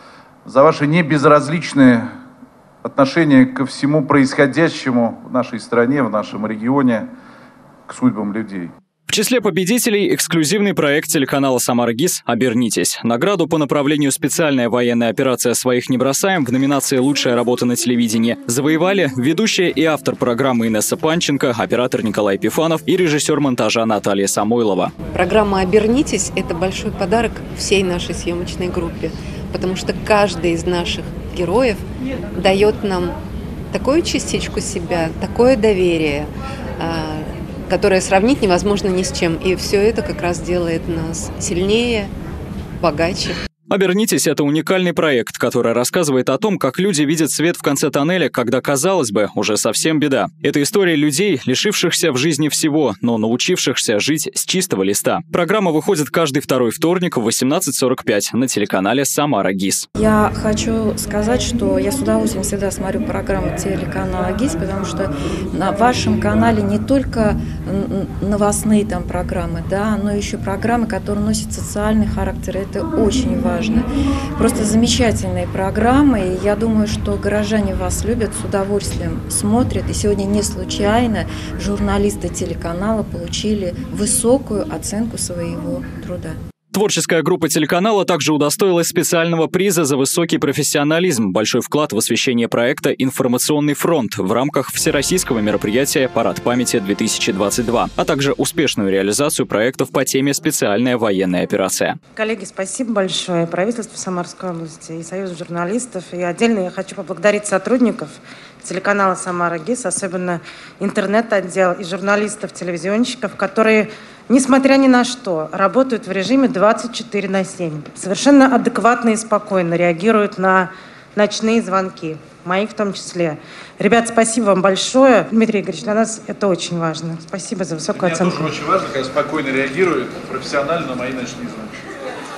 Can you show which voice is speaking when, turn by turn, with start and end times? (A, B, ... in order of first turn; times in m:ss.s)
0:00.4-0:02.1 A
0:02.8-0:07.1 A
0:07.9-0:08.7 A
0:09.1-0:24.9 B
0:25.1-0:33.2 C
0:33.7-0:42.1 C
0:42.8-0:43.4 C
0:43.7-0:59.9 B
1:00.0-1:26.4 D
1:26.7-1:42.0 B
1:42.2-2:08.5 E
2:07.9-2:11.7 A